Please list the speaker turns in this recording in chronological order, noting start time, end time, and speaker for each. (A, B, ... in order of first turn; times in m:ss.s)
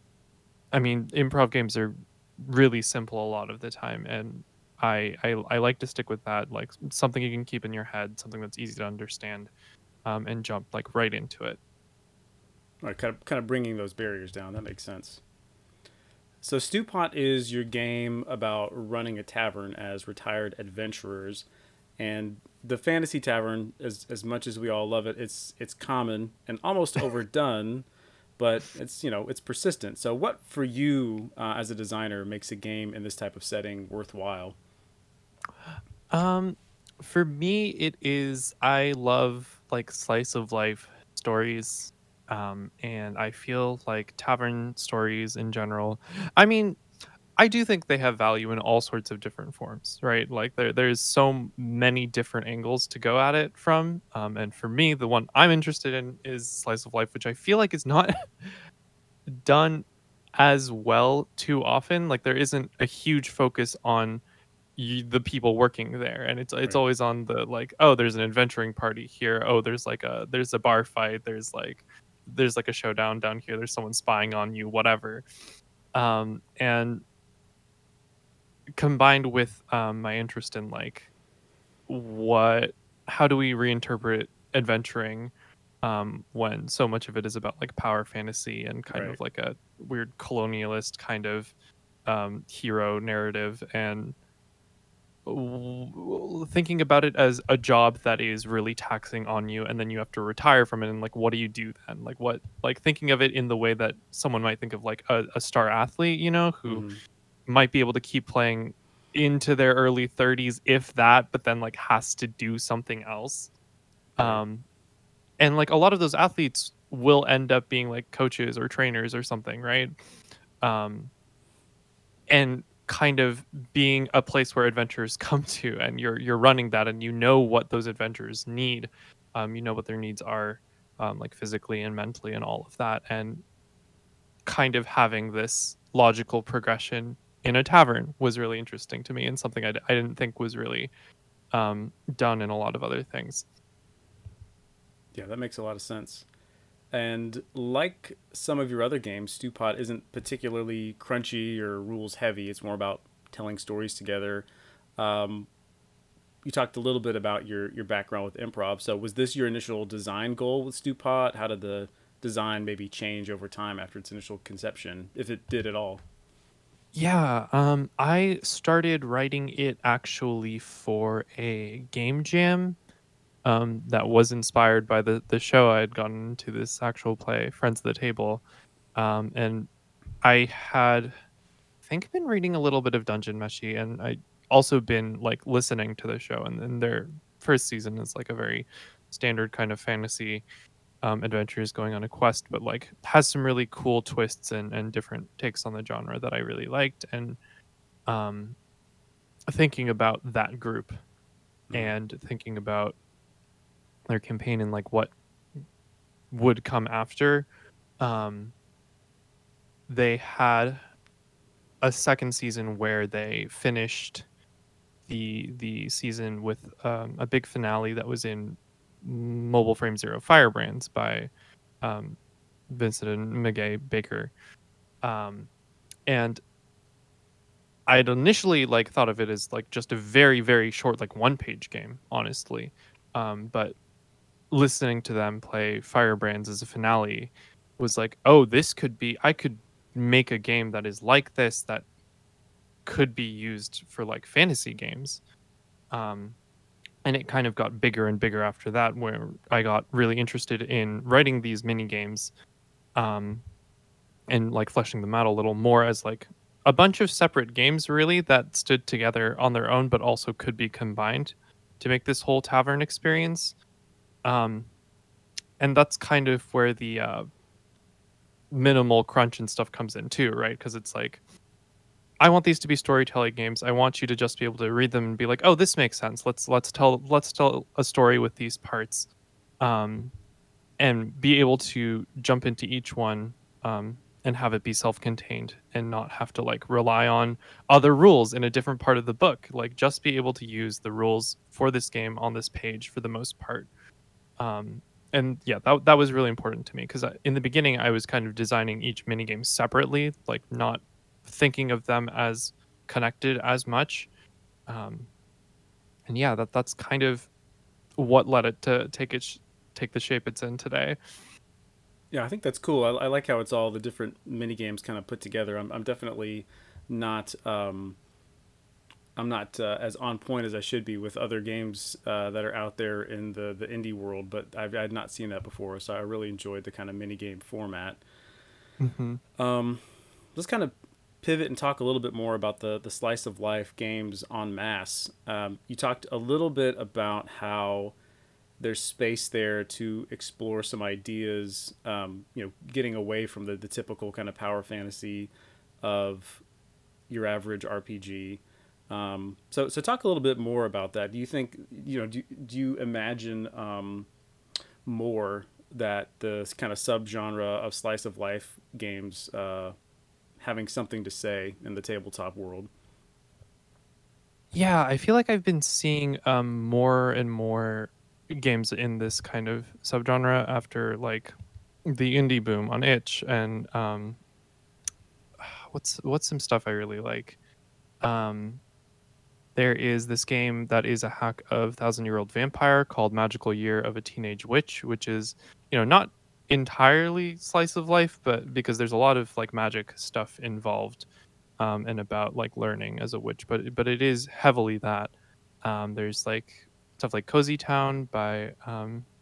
0:00.7-0:09.5 A
0:10.0-0:11.6 A
0:12.8-0:15.2 B
0:16.4-0:21.5 B
0:22.0-0:27.9 B
0:28.4-0:34.6 B
0:36.1-0:46.8 A
0:47.4-0:58.6 A
0:59.3-0:59.9 A
1:00.4-1:04.2 A
1:04.8-1:15.2 A
1:15.9-1:17.0 A
1:18.8-1:21.1 A
1:21.9-1:31.5 A
1:28.9-1:29.2 B
1:32.1-1:34.2 A
1:35.2-1:46.9 A
1:46.7-1:47.0 B
1:47.5-1:53.5 A
1:54.2-1:54.6 A
1:54.2-1:54.4 B
1:55.4-1:59.9 A
2:00.6-2:01.1 A
2:02.3-2:13.4 A
2:14.4-2:20.9 A
2:21.5-2:23.5 A
2:25.1-2:26.2 B
2:26.9-2:35.5 B
2:36.4-2:46.0 B
2:46.9-2:52.8 A
2:53.4-2:58.4 A
2:59.0-2:59.7 A
3:00.2-3:01.2 A
3:01.8-3:10.4 A
3:11.0-3:17.4 A
3:18.1-3:18.6 A
3:19.5-3:21.0 A
3:21.7-3:23.0 A
3:24.1-3:25.1 A
3:26.3-3:27.5 A
3:28.0-3:28.6 A
3:29.9-3:30.8 A
3:31.8-3:34.3 A
3:35.1-3:41.3 A
3:41.8-3:42.2 A
3:42.7-3:44.3 A
3:45.0-3:45.5 A
3:46.1-3:46.4 A
3:47.9-3:53.8 A
3:54.5-4:01.8 A
4:02.8-4:05.2 A
4:05.9-4:06.4 A
4:07.0-4:12.3 A
4:13.0-4:13.4 A
4:14.3-4:23.6 A
4:24.2-4:24.7 A
4:25.6-4:27.3 A
4:28.5-4:31.2 A
4:32.2-4:39.1 A
4:39.6-4:40.1 A
4:40.8-4:53.7 A
4:54.4-5:04.1 A
5:04.7-5:05.1 A
5:06.1-5:07.3 A
5:08.0-5:11.0 A
5:12.1-5:18.0 B
5:19.2-5:28.0 B
5:28.8-5:29.2 A
5:29.4-5:29.8 B
5:30.4-5:38.0 B
5:38.6-5:46.4 B
5:47.1-5:54.1 B
5:54.8-5:59.8 B
6:00.4-6:02.7 B
6:04.5-6:11.4 A
6:11.9-6:14.2 A
6:15.4-6:17.4 A
6:18.0-6:18.6 A
6:19.6-6:31.1 A
6:31.6-6:39.1 A